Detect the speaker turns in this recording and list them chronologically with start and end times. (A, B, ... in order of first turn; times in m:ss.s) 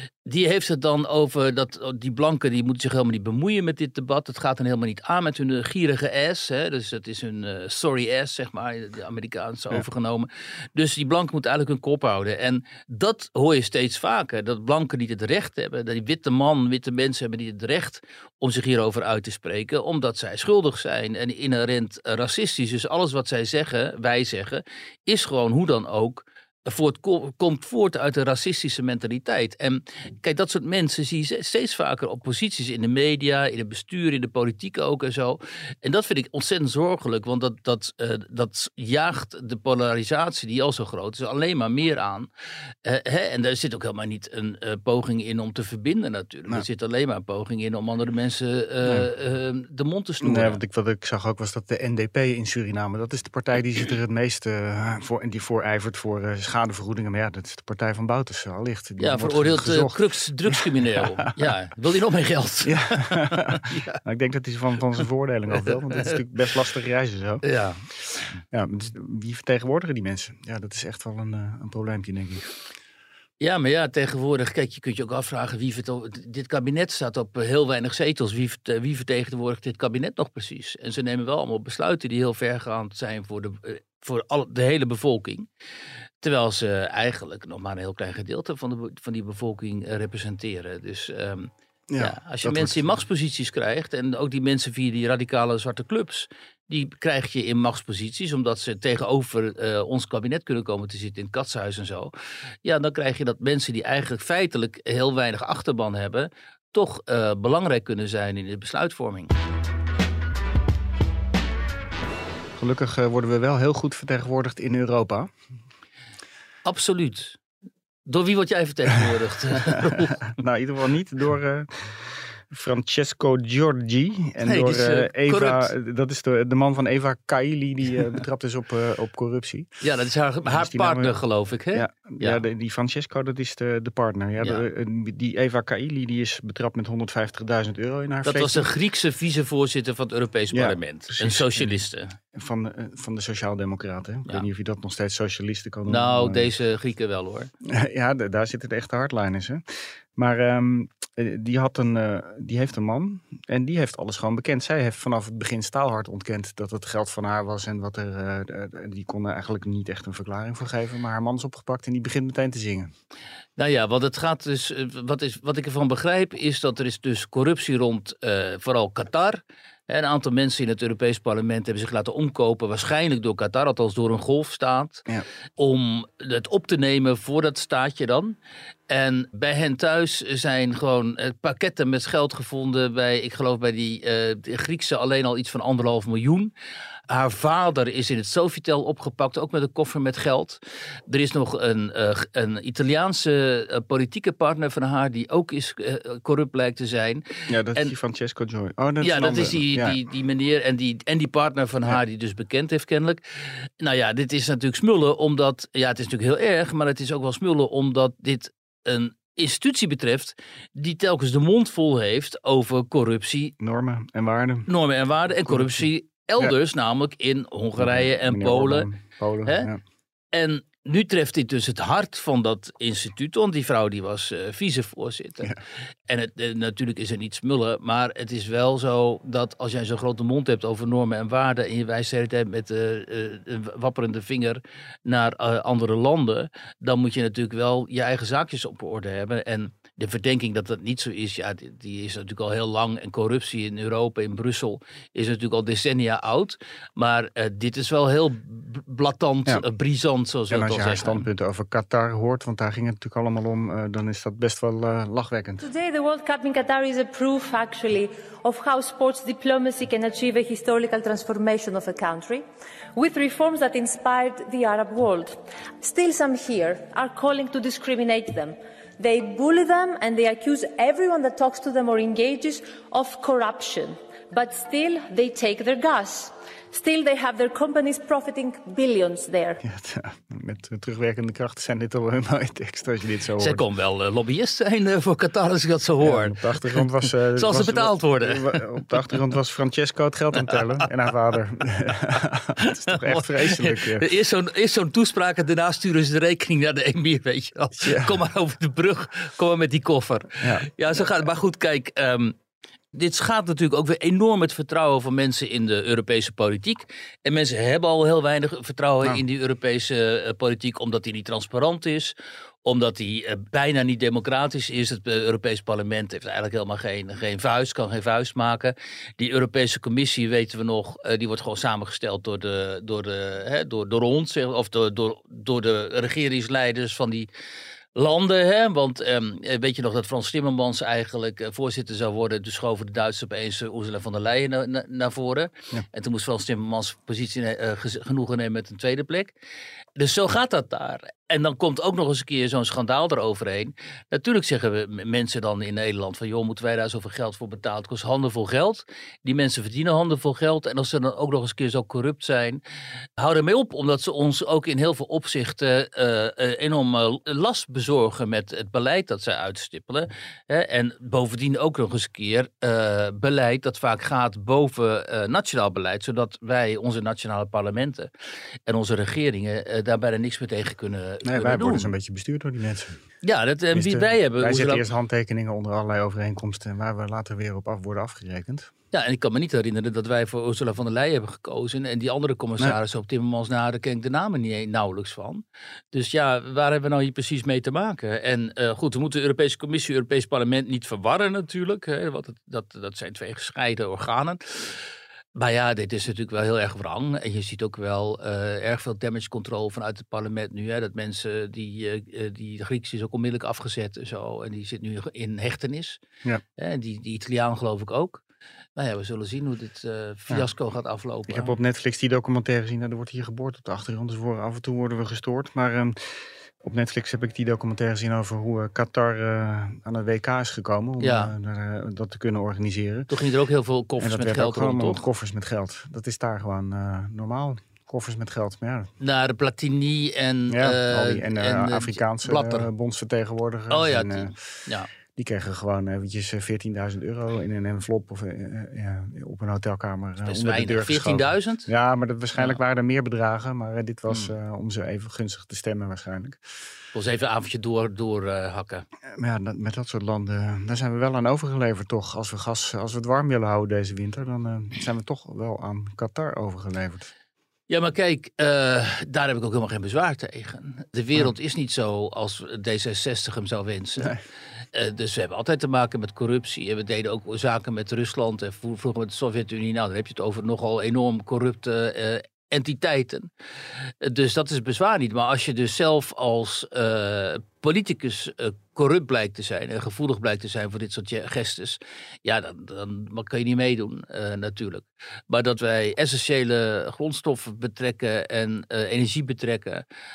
0:00.2-0:42.3 A
0:42.8-0:50.6 A
0:50.2-1:01.3 B
0:59.0-1:04.0 A
1:02.6-1:08.0 B
1:05.6-1:06.2 A
1:07.4-1:07.9 A
1:08.5-1:12.5 B
1:13.4-1:25.5 A
1:26.2-1:42.1 A
1:31.9-1:32.8 B
1:42.6-1:49.3 A
1:52.6-1:55.3 B
1:56.6-1:57.4 A
1:58.0-2:00.2 A
1:59.7-2:09.7 B
2:04.4-2:05.7 A
2:09.8-2:12.4 A
2:10.4-2:11.1 B
2:11.7-2:18.7 B
2:18.2-2:22.2 A
2:20.5-2:21.8 B
2:22.3-2:26.5 B
2:25.9-2:27.5 A
2:27.6-2:29.6 B
2:30.1-2:42.9 B
2:43.6-2:55.0 A
2:55.6-2:58.4 A
2:58.9-3:06.5 A
3:07.1-3:17.2 A
3:17.5-3:20.0 B
3:19.0-3:23.2 A
3:23.8-3:33.5 A
3:33.6-3:34.7 B
3:34.7-3:38.9 A
3:35.4-3:35.8 B
3:37.8-3:39.8 B
3:39.4-3:39.7 A
3:40.3-3:45.5 A
3:46.1-4:11.2 A
4:10.5-4:15.6 B
4:15.6-4:22.4 C
4:22.9-4:39.6 C
4:39.6-4:43.6 B
4:43.4-4:48.6 A
4:46.0-4:54.1 B
4:52.6-5:02.3 A
4:57.8-4:58.2 B
5:00.4-5:00.7 B
5:02.9-5:12.1 A
5:12.6-5:27.3 A
5:28.0-5:39.3 A
5:40.0-5:52.6 A
5:53.2-6:08.1 A
6:08.7-6:11.9 A
6:11.2-6:13.0 B
6:13.2-6:14.8 A
6:13.7-6:18.7 B
6:18.9-6:34.7 A
6:35.4-6:46.0 A
6:46.6-6:48.2 A
6:48.8-6:51.5 A
6:51.3-7:03.1 B
7:01.0-7:01.3 A
7:03.1-7:05.0 A
7:04.0-7:08.9 B
7:09.0-7:12.7 A
7:10.5-7:14.5 B
7:13.7-7:14.9 A
7:15.1-7:26.4 B
7:20.2-7:21.7 A
7:26.9-7:28.8 A
7:29.1-7:37.1 B
7:37.7-7:44.1 A
7:44.7-7:53.3 A
7:54.0-8:09.8 A